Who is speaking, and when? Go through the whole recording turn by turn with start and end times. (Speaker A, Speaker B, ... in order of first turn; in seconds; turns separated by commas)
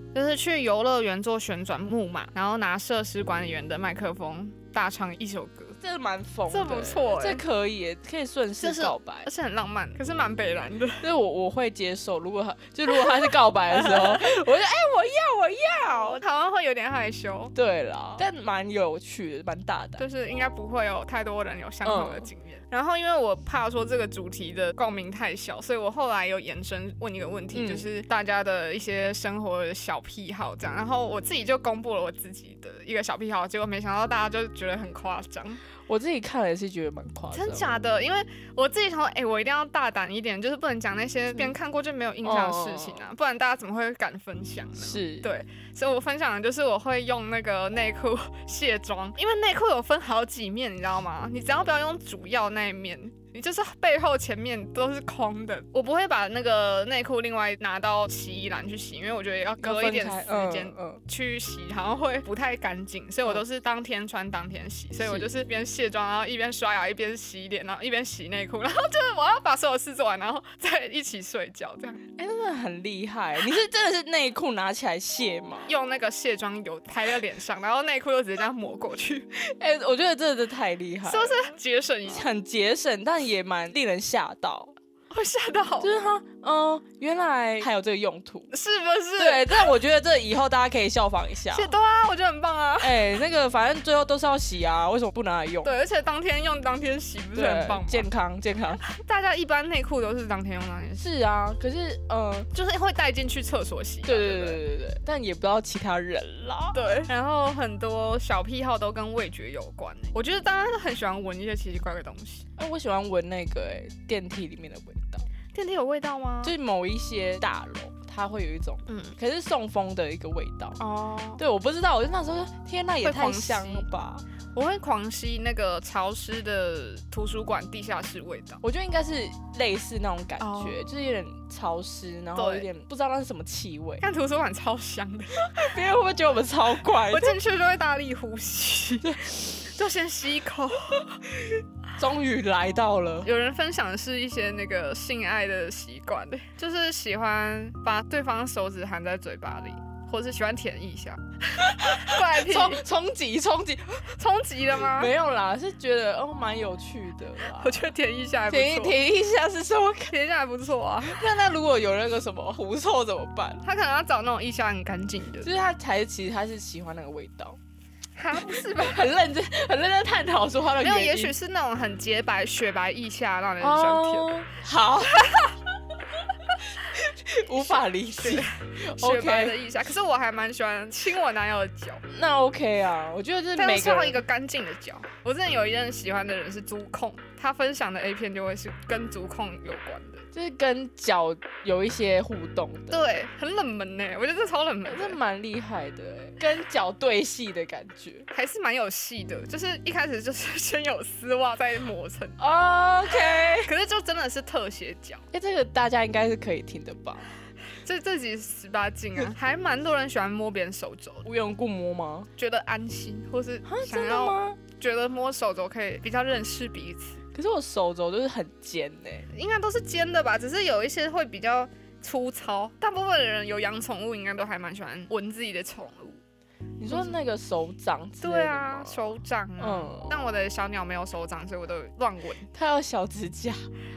Speaker A: 0.1-5.8, Speaker B: 5.8-9.3, Speaker A: 6.5-7.4, Speaker A: 8.6-11.0, Speaker B: 11.0-16.2, Speaker A: 13.9-14.2, Speaker A: 16.1-17.5, Speaker B: 17.5-20.1, Speaker A: 20.0-35.6, Speaker B: 21.8-22.3, Speaker B: 27.5-27.9, Speaker B: 35.9-37.8, Speaker A: 37.3-72.0, Speaker B: 42.2-43.0, Speaker B: 44.8-45.3, Speaker B: 59.6-61.0, Speaker B: 65.0-65.3, Speaker B: 72.2-75.7, Speaker A: 75.7-79.3, Speaker B: 79.4-81.5, Speaker A: 81.0-82.2, Speaker B: 82.1-84.7, Speaker A: 85.1-85.9, Speaker B: 85.8-88.5, Speaker A: 88.5-89.7, Speaker B: 89.2-91.7, Speaker A: 91.5-93.0, Speaker B: 92.8-95.7, Speaker A: 95.6-98.0, Speaker B: 97.3-98.8, Speaker A: 98.9-101.0, Speaker B: 101.0-102.5, Speaker A: 102.5-104.6, Speaker B: 104.0-106.8, Speaker A: 106.7-112.4, Speaker B: 112.6-115.3, Speaker A: 115.5-116.5, Speaker B: 116.4-120.8, Speaker A: 118.9-119.1, Speaker A: 120.8-121.4, Speaker B: 121.4-124.2, Speaker A: 123.0-123.8, Speaker A: 124.5-128.6, Speaker B: 128.6-134.0, Speaker A: 130.4-130.8, Speaker A: 132.3-132.7, Speaker A: 134.0-135.5, Speaker B: 135.5-137.4, Speaker A: 137.1-141.1, Speaker B: 139.0-139.5, Speaker B: 141.4-143.3, Speaker A: 143.2-152.8, Speaker B: 151.6-154.1, Speaker A: 154.2-155.1, Speaker B: 154.8-157.8, Speaker A: 157.6-159.0, Speaker B: 158.5-160.1, Speaker A: 160.1-161.2, Speaker B: 161.0-163.6, Speaker A: 163.6-165.5, Speaker B: 165.4-167.6, Speaker A: 168.2-169.0, Speaker B: 168.4-171.3, Speaker A: 170.8-174.3, Speaker B: 173.6-175.4, Speaker A: 175.2-175.5, Speaker B: 176.6-179.6, Speaker A: 177.6-182.0, Speaker B: 182.1-184.2, Speaker A: 183.6-190.2, Speaker B: 190.3-193.1, Speaker A: 192.9-195.2, Speaker B: 194.8-198.2, Speaker A: 198.3-202.4, Speaker B: 202.4-203.7, Speaker A: 203.5-205.2, Speaker B: 205.3-207.3, Speaker A: 207.8-211.2, Speaker B: 211.2-212.3, Speaker A: 212.4-217.2, Speaker B: 213.7-214.6, Speaker B: 217.3-219.3, Speaker A: 219.3-226.2, Speaker B: 226.8-230.1, Speaker A: 226.9-227.2, Speaker A: 228.2-232.5, Speaker B: 232.5-233.7